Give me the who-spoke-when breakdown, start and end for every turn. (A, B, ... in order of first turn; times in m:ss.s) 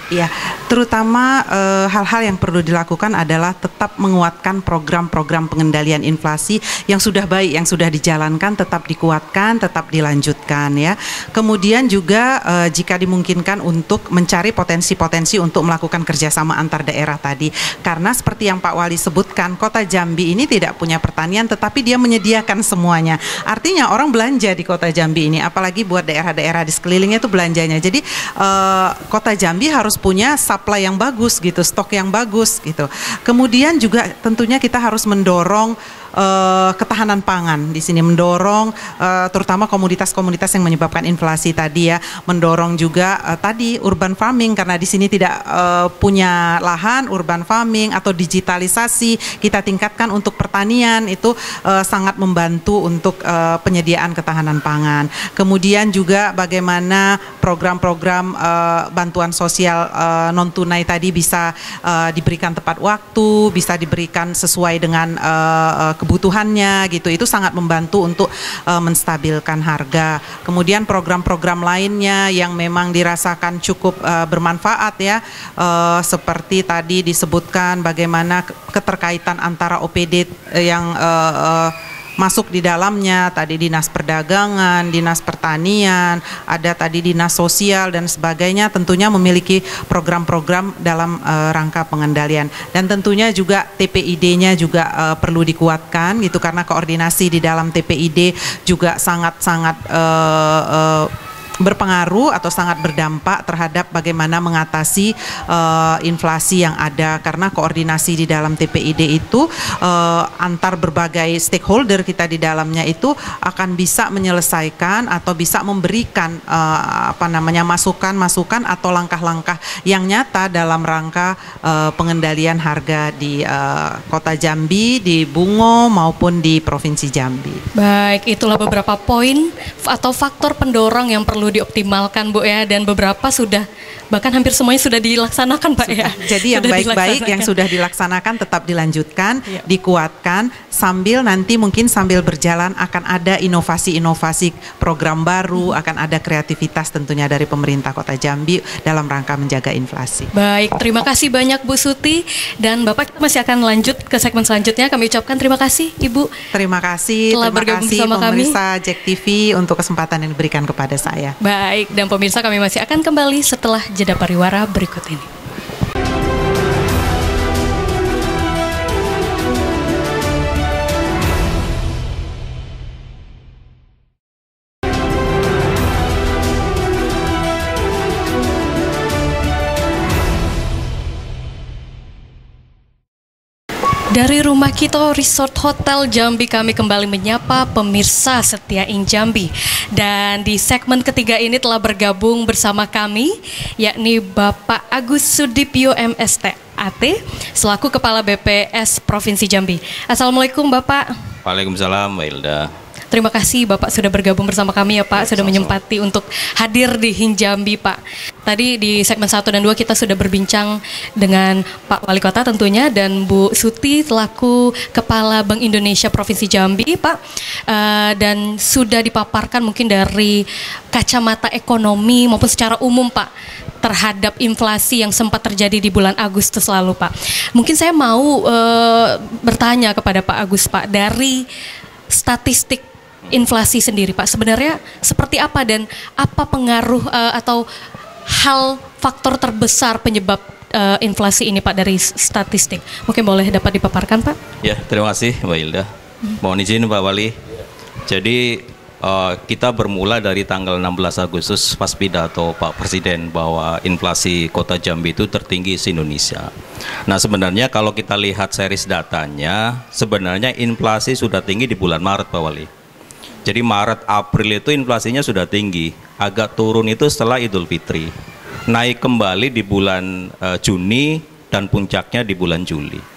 0:00.1-2:07.6 A
2:07.8-2:17.5 B
2:15.8-2:30.3 A
2:30.3-2:36.3 B
2:36.5-2:41.4 A
2:37.3-2:38.6 B
2:41.4-2:45.3 B
3:04.1-3:21.1 B
3:21.4-3:22.7 C
3:23.1-3:43.3 B
3:25.2-3:25.8 C
3:43.8-3:51.4 B
3:52.1-3:57.6 B
3:58.3-4:04.4 B
4:04.6-4:05.9 C
4:06.4-4:07.4 C
4:08.1-4:16.5 C
4:17.1-4:22.7 C
4:23.4-4:28.1 C
4:28.7-4:33.0 C